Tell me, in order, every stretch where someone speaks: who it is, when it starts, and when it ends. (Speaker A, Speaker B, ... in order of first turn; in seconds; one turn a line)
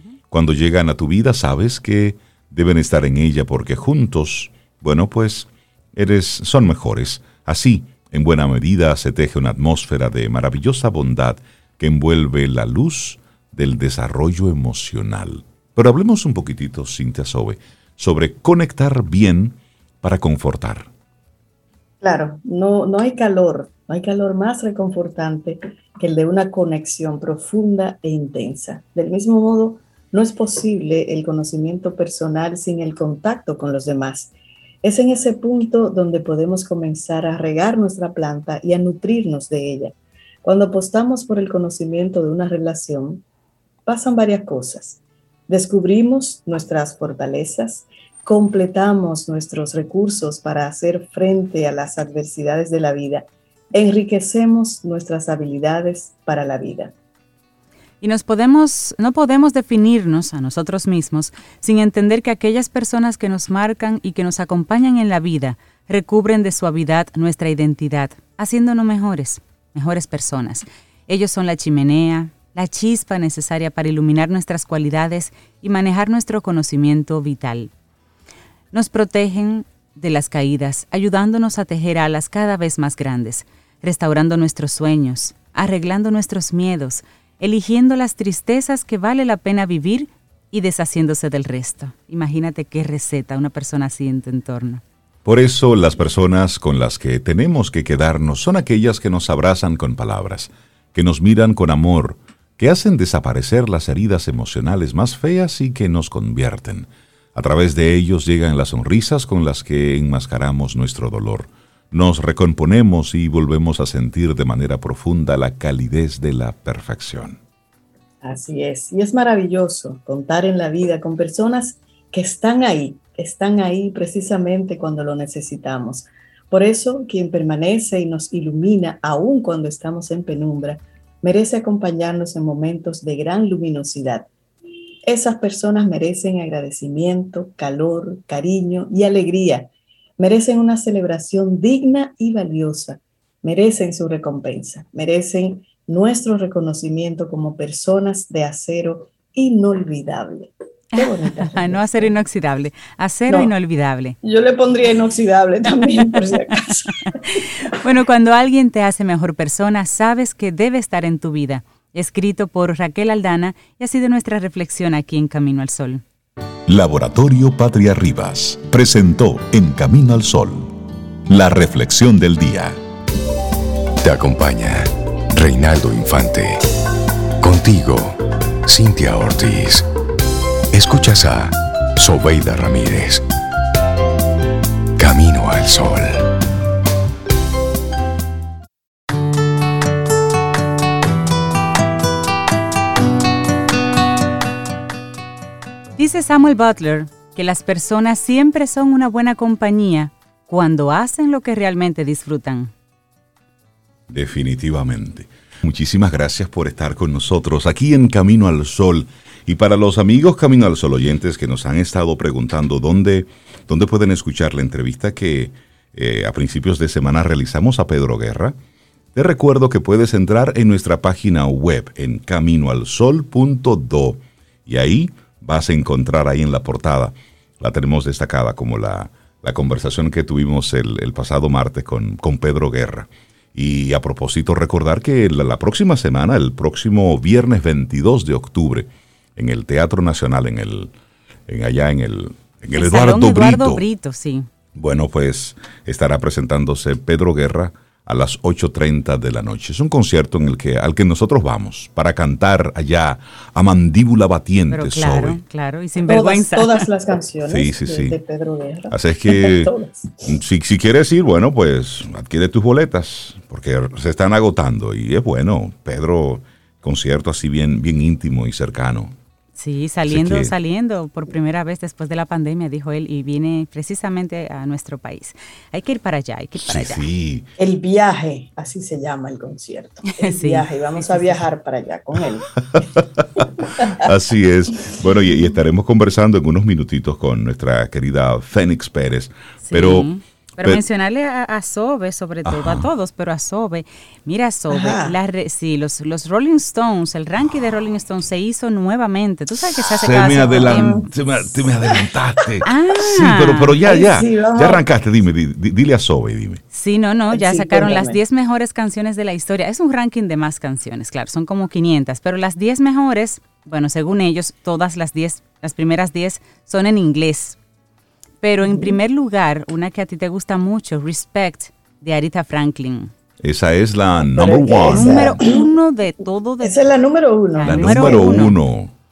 Speaker A: 0.3-20.9
Speaker B: 22.0-34.3
Speaker B: 34.8-43.2
Speaker B: 43.9-56.9
Speaker C: 58.0-77.7
Speaker C: 78.7-94.8
Speaker A: 95.2-117.4
Speaker B: 118.2-134.3
Speaker B: 135.1-152.1
Speaker C: 150.9-154.2
Speaker B: 154.2-157.5
Speaker C: 157.3-166.0
Speaker A: 166.7-170.7
Speaker A: 171.3-172.8
Speaker D: 174.0-176.6
Speaker D: 177.4-179.9
Speaker D: 180.7-183.2
Speaker D: 185.0-186.3
Speaker C: 196.0-202.7
Speaker A: 204.1-218.6
Speaker A: 219.1-240.9
Speaker A: 241.5-243.8
Speaker C: 242.8-244.5
Speaker A: 244.8-255.4
Speaker C: 254.7-256.9
Speaker B: 256.0-260.1
Speaker A: 257.5-258.2
Speaker A: 258.9-259.7
Speaker A: 260.2-269.1
Speaker C: 269.6-277.1
Speaker A: 270.1-270.5
Speaker A: 276.6-277.5
Speaker B: 277.6-282.5
Speaker C: 280.2-281.4
Speaker A: 282.8-290.1
Speaker B: 283.4-284.0
Speaker C: 289.6-301.1
Speaker A: 292.4-292.9
Speaker B: 294.7-295.2
Speaker A: 299.7-306.6
Speaker B: 300.6-301.9
Speaker C: 302.6-303.8
Speaker B: 303.8-304.9
Speaker C: 306.7-317.6
Speaker B: 307.3-308.2
Speaker C: 318.4-323.1
Speaker B: 318.6-318.9
Speaker A: 323.4-325.4
Speaker B: 324.3-325.7
Speaker C: 324.7-326.9
Speaker B: 326.6-328.5
Speaker C: 327.6-328.6
Speaker A: 327.6-328.9